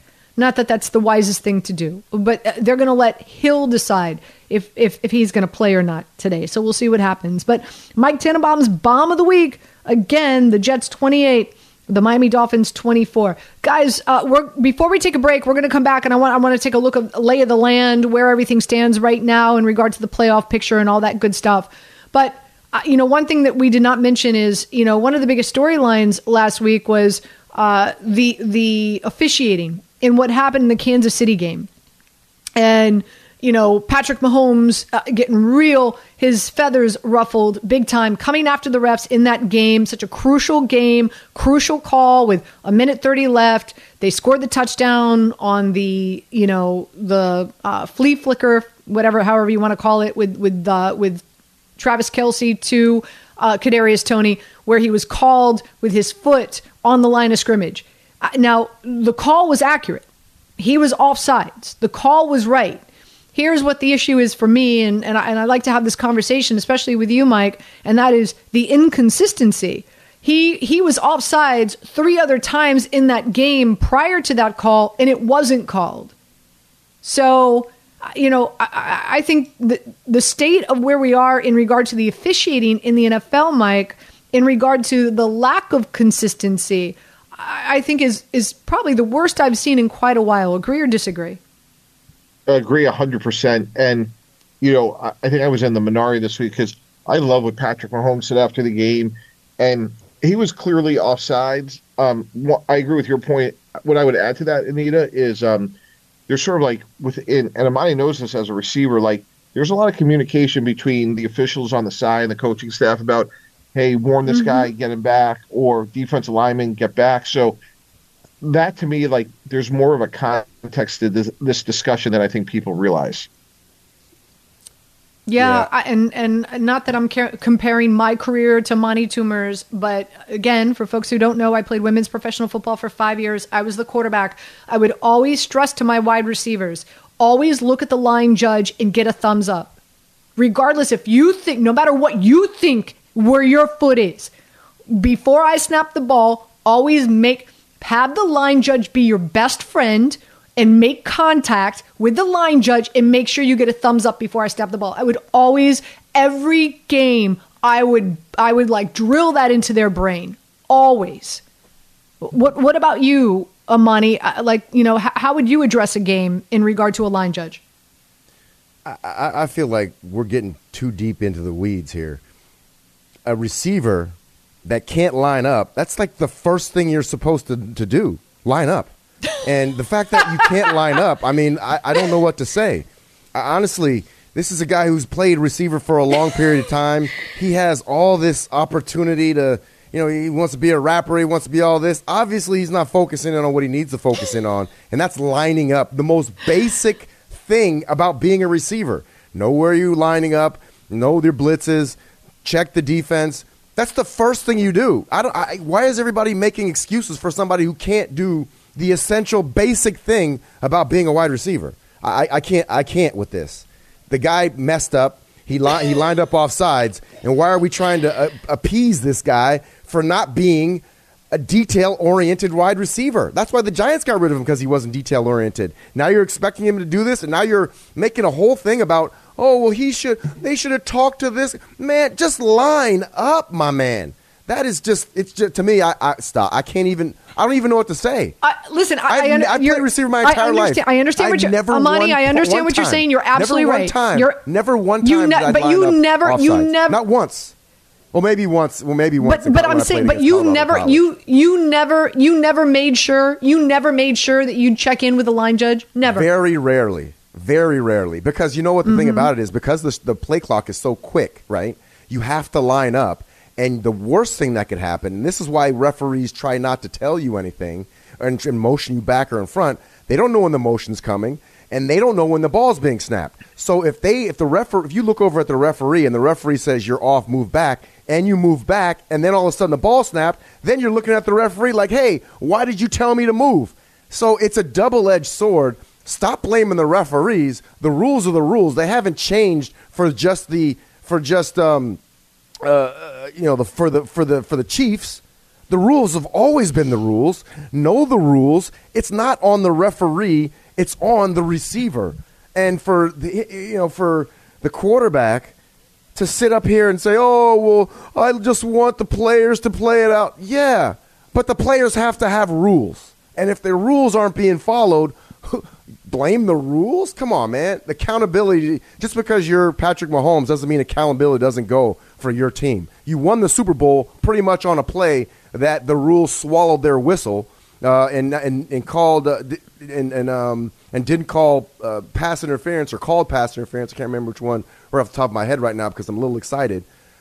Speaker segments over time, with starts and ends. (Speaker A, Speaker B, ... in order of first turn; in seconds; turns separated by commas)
Speaker A: 0.4-31.7, Speaker A: 32.6-51.2, Speaker A: 51.8-60.0, Speaker A: 60.6-62.8, Speaker A: 63.3-76.1, Speaker A: 77.0-91.4, Speaker B: 92.5-105.7, Speaker B: 106.3-117.6, Speaker A: 114.3-114.7, Speaker B: 118.4-123.3, Speaker A: 125.3-139.7, Speaker C: 125.4-125.7, Speaker A: 140.4-144.3, Speaker A: 144.9-161.4, Speaker A: 162.2-167.6, Speaker C: 168.8-172.2, Speaker C: 173.2-238.3, Speaker A: 238.4-244.4, Speaker C: 239.1-247.5, Speaker A: 245.0-247.0, Speaker C: 248.1-251.1, Speaker A: 249.2-256.3, Speaker C: 256.0-292.0, Speaker A: 258.8-259.3, Speaker C: 292.6-305.5, Speaker C: 306.1-336.9